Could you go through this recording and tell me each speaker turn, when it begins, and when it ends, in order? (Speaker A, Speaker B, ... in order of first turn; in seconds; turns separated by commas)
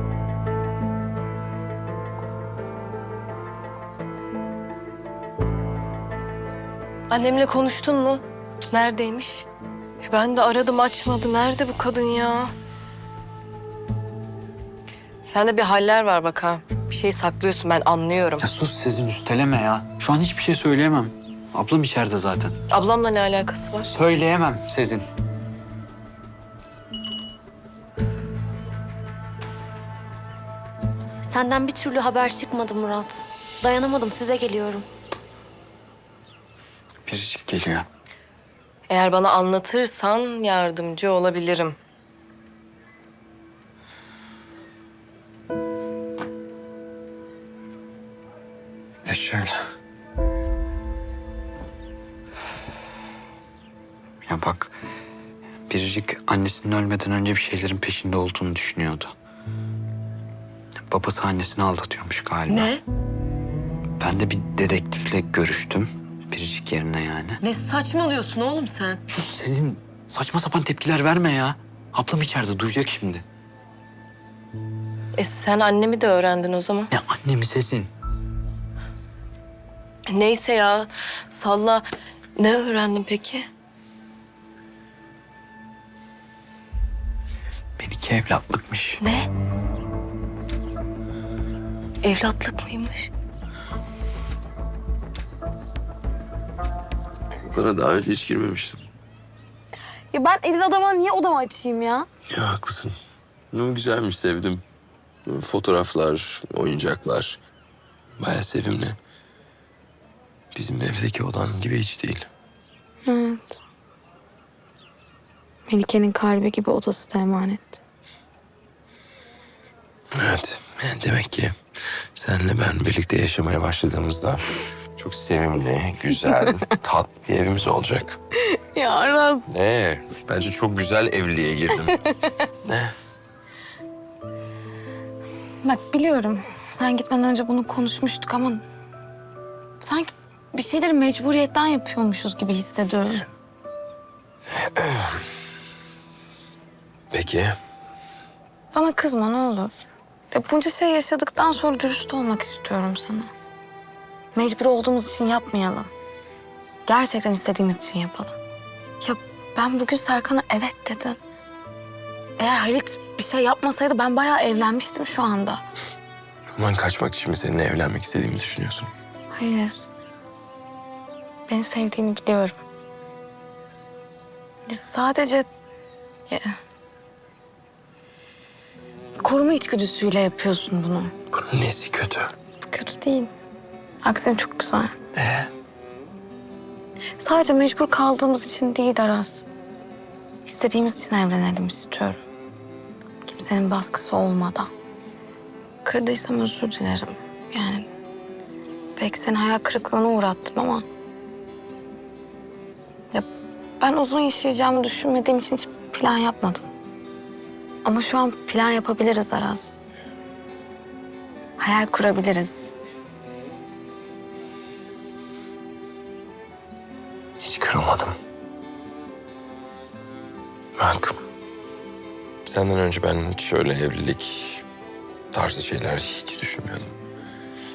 Speaker A: 7.1-9.5, Speaker A: 10.0-12.5, Speaker A: 15.2-18.4, Speaker B: 18.4-22.6, Speaker A: 22.7-23.9, Speaker B: 23.9-25.0, Speaker C: 31.2-34.9, Speaker B: 37.0-37.9, Speaker A: 38.9-41.8, Speaker B: 49.0-49.5, Speaker B: 54.2-54.7, Speaker B: 55.7-59.1, Speaker B: 60.9-62.7, Speaker A: 62.5-62.8, Speaker B: 64.0-67.4, Speaker A: 67.4-69.0, Speaker B: 69.1-73.2, Speaker A: 75.2-76.9, Speaker B: 76.9-77.9, Speaker A: 80.1-81.8, Speaker A: 82.4-83.5, Speaker B: 87.8-89.0, Speaker A: 89.0-89.3, Speaker A: 92.0-93.1, Speaker D: 97.5-98.8, Speaker E: 100.1-102.1, Speaker D: 102.3-102.9, Speaker D: 103.5-104.6, Speaker D: 105.2-107.4, Speaker D: 108.2-109.0, Speaker D: 110.5-112.3, Speaker E: 113.0-113.6, Speaker E: 115.7-117.8, Speaker D: 120.2-121.5, Speaker D: 122.2-128.2, Speaker E: 128.5-129.5, Speaker D: 129.5-132.0, Speaker D: 132.6-132.9, Speaker E: 135.6-138.6, Speaker E: 139.8-143.3, Speaker D: 144.5-145.2, Speaker D: 147.1-147.6, Speaker E: 148.7-153.3, Speaker E: 154.3-155.9, Speaker E: 156.8-158.3, Speaker E: 159.0-161.2, Speaker E: 162.4-165.6, Speaker D: 166.6-168.9, Speaker E: 169.3-169.8, Speaker E: 171.5-172.6, Speaker E: 174.7-175.5, Speaker E: 176.3-176.5, Speaker E: 179.2-181.1, Speaker D: 181.3-182.3, Speaker E: 182.6-183.3, Speaker E: 184.0-184.9, Speaker D: 185.1-185.5, Speaker E: 187.2-189.4, Speaker E: 190.4-192.2, Speaker E: 193.2-194.7, Speaker E: 195.8-197.8, Speaker E: 199.0-200.8, Speaker E: 203.8-206.7, Speaker E: 207.8-209.8, Speaker E: 211.6-212.6, Speaker D: 217.4-218.2, Speaker D: 220.8-221.2, Speaker D: 222.4-224.6, Speaker D: 225.3-226.9